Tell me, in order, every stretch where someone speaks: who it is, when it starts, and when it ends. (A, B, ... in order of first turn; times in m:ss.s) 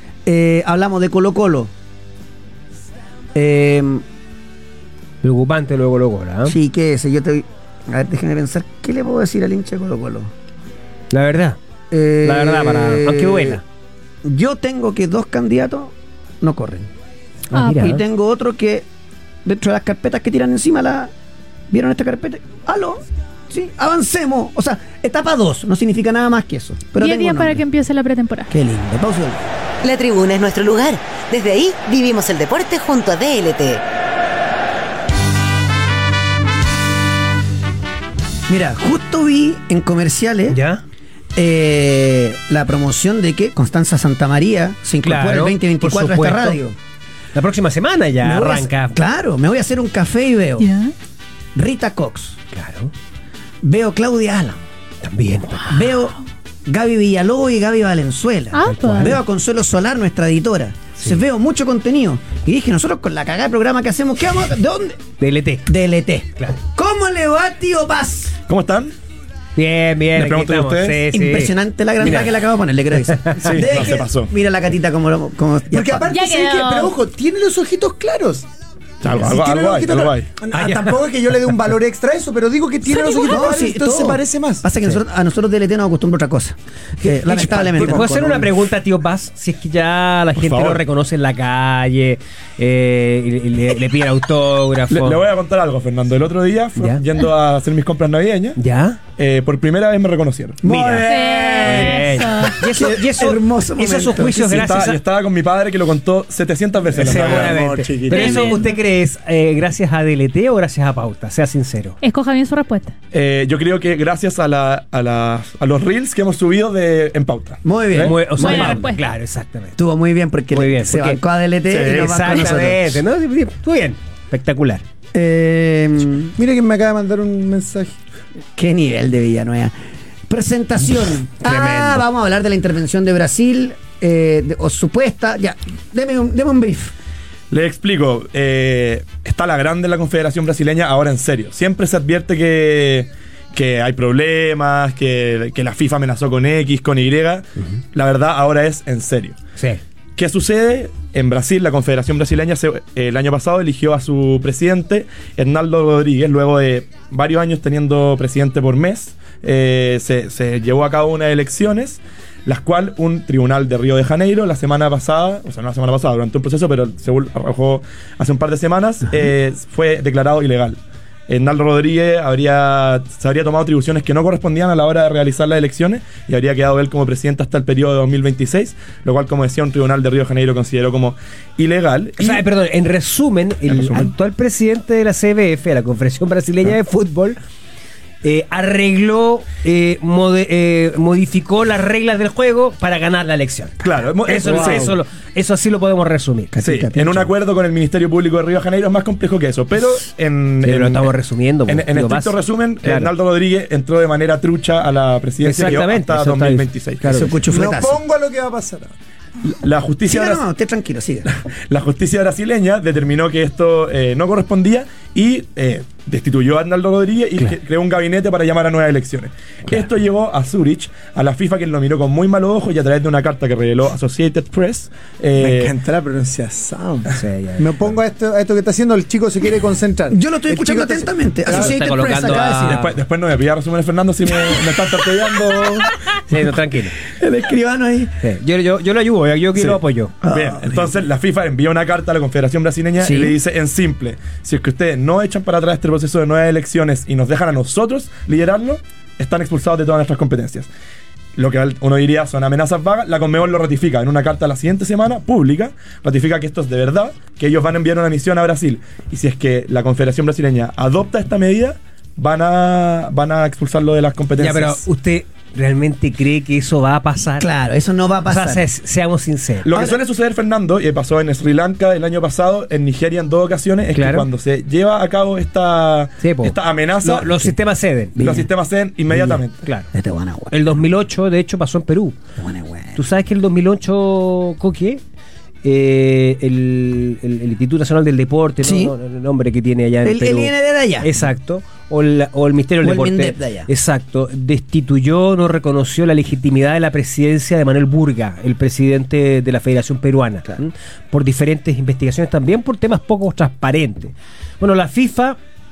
0:00.2-0:01.7 A
0:03.3-0:04.0 A
0:05.2-0:06.6 B
0:06.4-0:10.3 A
0:11.1-0:11.6 B
0:11.9-0:13.6 A
0:12.2-0:13.6 B
0:14.2-0:16.9 A
0:17.5-0:18.0 B
0:17.6-0:17.9 C
0:17.6-0:18.8 A
0:19.4-0:21.1 A
0:21.7-0:27.6 A
0:27.0-0:28.5 C
0:28.5-0:29.4 A
0:29.8-0:33.8 D
0:38.5-0:40.6 A
0:40.5-0:40.8 B
0:41.4-0:46.8 A
0:45.0-0:46.6 B
0:47.3-0:49.0 B
0:48.2-0:50.7 A
0:50.6-0:50.9 C
0:51.5-0:52.4 A
0:52.5-0:52.9 B
0:53.6-0:54.6 A
0:55.0-0:55.8 B
0:55.6-1:05.0 A
0:58.5-0:59.2 C
0:58.6-0:59.2 B
1:05.2-1:05.7 B
1:05.7-1:08.4 A
1:08.5-1:08.9 E
1:09.6-1:12.4 B
1:10.1-1:11.1 E
1:11.1-1:16.1 A
1:13.1-1:13.5 B
1:13.4-1:14.3 E
1:15.7-1:18.5 F
1:16.1-1:17.0 C
1:19.0-1:20.3 E
1:19.1-1:24.6 F
1:20.5-1:21.0 B
1:22.9-1:28.1 A
1:27.0-1:35.2 B
1:27.5-1:28.5 F
1:30.3-1:30.8 E
1:34.9-1:38.6 E
1:36.8-1:37.0 B
1:38.6-1:39.0 B
1:39.2-1:40.7 E
1:40.6-1:41.4 A
1:40.6-1:45.0 B
1:41.0-1:42.6 C
1:41.4-1:41.9 F
1:42.6-1:44.6 A
1:44.1-1:47.8 E
1:46.9-1:48.6 F
1:47.0-1:52.0 B
1:48.1-1:48.7 C
1:52.0-1:52.9 C
1:53.1-1:58.1 E
1:57.6-1:58.8 A
1:58.0-1:59.8 B
1:58.4-1:59.0 C
1:59.8-2:02.9 A
2:00.5-2:01.2 B
2:01.7-2:02.8 E
2:01.7-2:04.8 B
2:05.1-2:06.4 A
2:06.4-2:08.0 F
2:08.6-2:09.7 A
2:10.3-2:16.9 A
2:11.4-2:12.0 B
2:17.5-2:29.4 E
2:30.2-3:02.4 E
3:02.2-3:07.4 B
3:03.7-3:04.1 E
3:08.2-3:16.5 B
3:13.8-3:15.0 E
3:16.5-3:17.3 A
3:16.6-3:21.1 E
3:20.6-3:23.1 B
3:21.7-3:27.3 E
3:25.4-3:27.3 B
3:27.0-3:28.0 A
3:27.5-3:28.9 F
3:29.5-3:30.4 E
3:30.0-3:31.3 A
3:31.6-3:45.7 E
3:45.4-3:51.8 F
3:47.1-3:47.9 B
3:50.1-3:52.9 A
3:51.4-3:52.9 B
3:52.4-3:55.9 E
3:56.2-3:57.0 B
3:57.0-3:58.1 A
3:58.2-4:00.1 B
3:59.5-4:10.7 E
4:00.2-4:00.9 A
4:03.0-4:03.4 A
4:11.4-4:24.8 E
4:24.4-4:27.5 B
4:27.4-4:28.6 A
4:28.3-4:29.7 B
4:29.6-4:37.5 E
4:29.7-4:30.0 A
4:33.9-4:34.3 B
4:36.2-4:38.4 B
4:38.2-4:39.6 E
4:38.2-4:38.5 A
4:39.1-4:39.9 B
4:39.9-4:40.7 A
4:40.5-4:42.2 B
4:42.4-4:43.0 A
4:43.0-4:45.0 B
4:45.6-5:05.4 B
4:48.6-4:48.9 A
4:50.0-4:51.1 A
4:52.8-4:53.7 A